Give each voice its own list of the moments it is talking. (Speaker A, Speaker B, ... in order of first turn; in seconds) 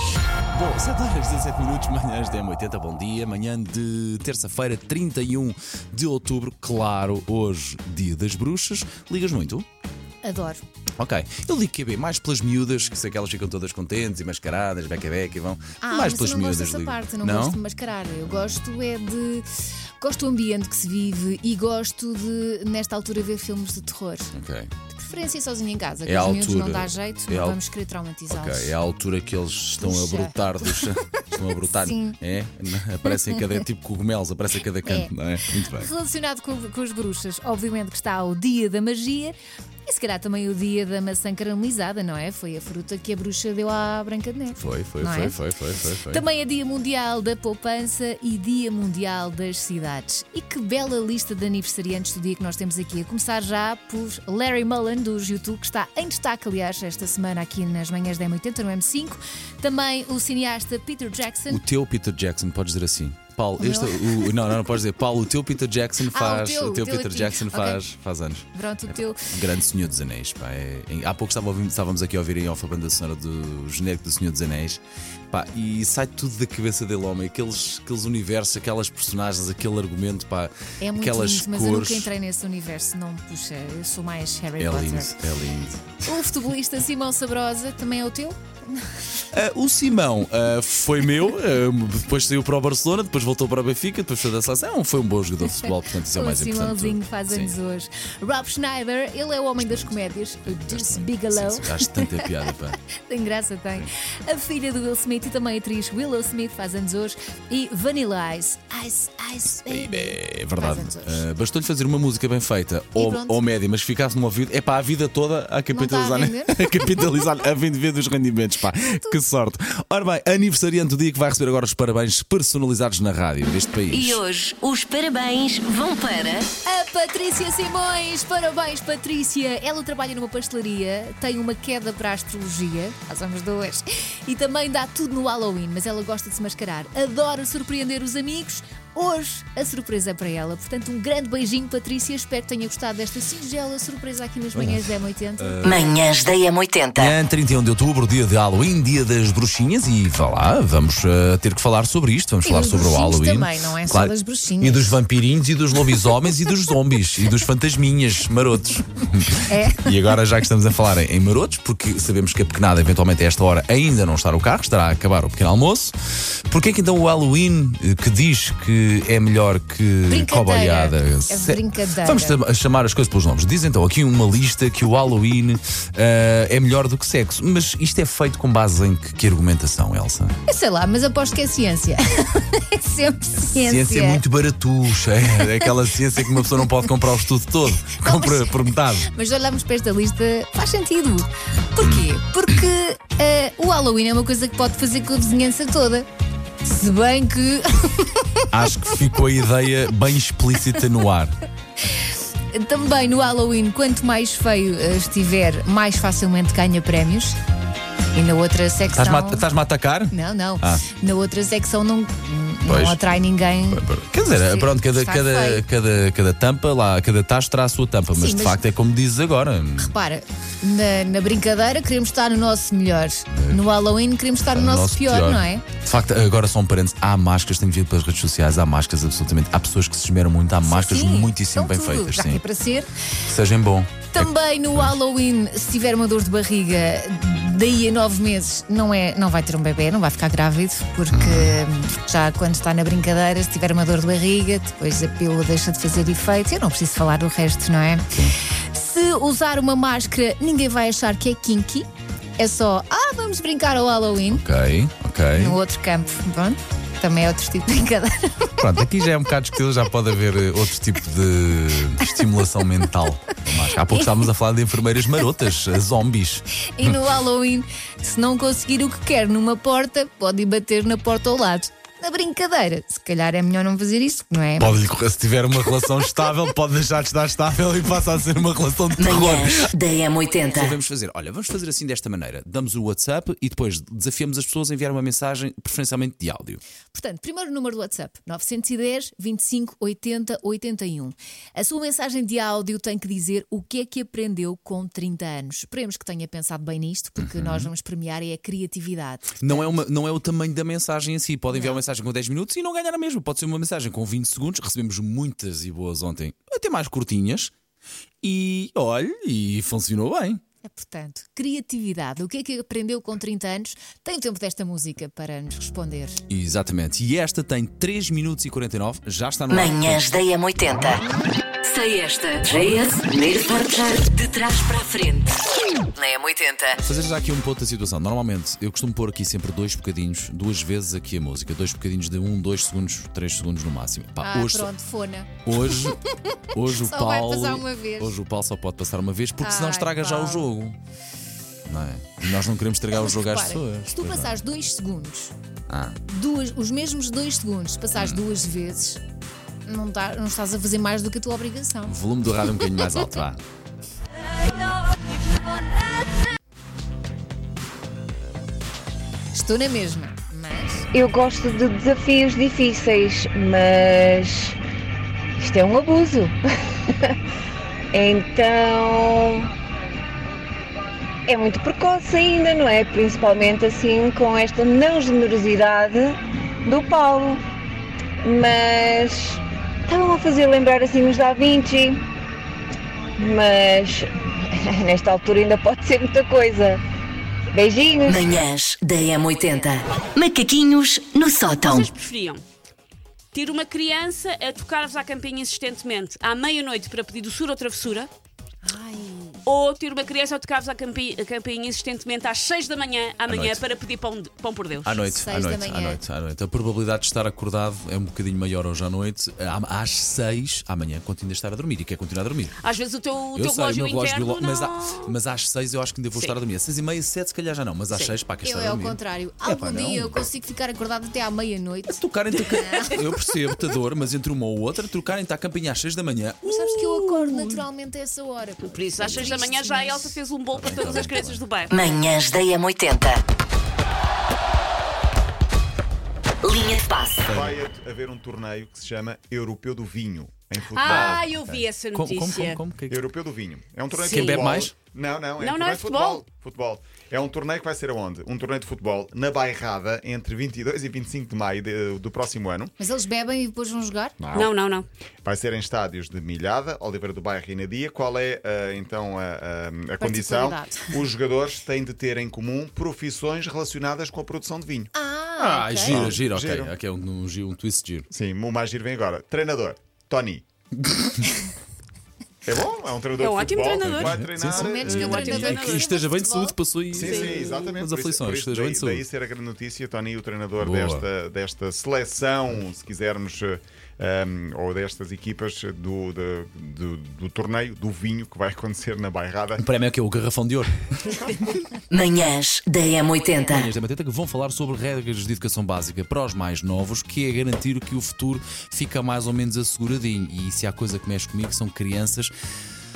Speaker A: 0.5-9.6, 11.0-17.6, 18.2-18.6, 24.3-24.7, 26.0-27.6, 28.3-35.9, 44.6-46.2, 61.5-74.8, 75.3-82.1, 84.6-86.0, 89.3-97.5, 99.6-102.8, 109.7-124.2, 144.6-144.8, 145.4-145.9, 146.9-165.9, 166.5-180.3, 183.5-189.1, 191.8-192.1, 198.5-201.4, 208.9-210.8, 212.7-213.0, 213.7-219.9, 223.3-223.6, 224.4-232.4, 233.3-234.3, 241.1-241.6, 254.3-255.6, 258.6-266.9, 274.6-279.7, 280.5-286.6, 297.2-297.7, 299.4-307.5, 308.2-310.4, 316.3-320.2, 326.8-334.7, 335.4-336.0, 336.5-340.8, 341.7-344.3, 345.7-346.0, 347.9-348.2, 351.9-353.4, 403.3-403.6, 404.8-412.6, 413.3-420.2, 421.9-427.6, 429.0-429.5, 430.5-431.4, 440.8-441.2, 441.9-443.0, 444.1-444.7, 465.4-468.1, 470.8-471.2, 473.8-479.1, 480.6-481.1, 489.6-491.2, 493.4-502.3
Speaker B: 10.2-10.6, 15.8-19.5, 20.0-24.3, 24.9-28.7, 29.8-32.2, 33.1-33.4, 34.8-45.4, 46.1-61.6, 63.6-64.3, 66.1-67.8, 68.5-69.3, 80.8-85.2, 86.0-88.9, 96.1-102.5, 103.0-111.2, 112.9-113.4, 115.7-116.9, 118.8-119.2, 126.7-145.6, 152.4-155.0, 159.5-159.9, 170.1-172.4, 180.5-184.2, 187.8-196.1, 196.6-198.5, 202.5-207.3, 208.1-209.5, 210.1-215.6, 218.1-218.6, 219.8-225.7, 230.6-232.9, 234.1-248.1, 248.7-254.4, 255.3-258.6, 266.8-274.8, 286.9-299.8, 301.5-301.8, 310.6-316.2, 334.2-338.1, 339.4-340.5, 342.9-345.3, 346.1-349.0, 349.6-352.0, 359.3-360.9, 398.6-399.4, 405.1-406.0, 418.4-423.0, 426.4-430.2, 452.8-454.2, 460.0-461.0, 464.9-466.1, 474.4-476.6
Speaker C: 123.9-126.5, 145.6-147.2, 279.0-280.8, 319.5-321.0, 321.6-325.4, 325.9-326.8, 388.0-391.9, 431.7-433.2, 436.4-437.3, 491.9-493.7
Speaker D: 360.9-364.6, 365.4-366.3, 367.9-369.5, 371.3-377.4, 378.2-382.0, 383.2-386.8, 387.5-388.4
Speaker E: 391.6-392.4, 393.3-398.1, 399.4-405.1, 412.6-415.1, 428.6-432.0, 440.7-442.6, 443.9-444.6, 445.4-446.2, 454.3-454.9, 473.2-474.2, 474.8-475.9, 477.0-477.7
Speaker F: 437.3-441.6, 442.9-452.7, 454.2-454.6, 455.2-464.9, 465.9-466.7, 468.1-470.4, 472.4-474.9, 476.9-489.6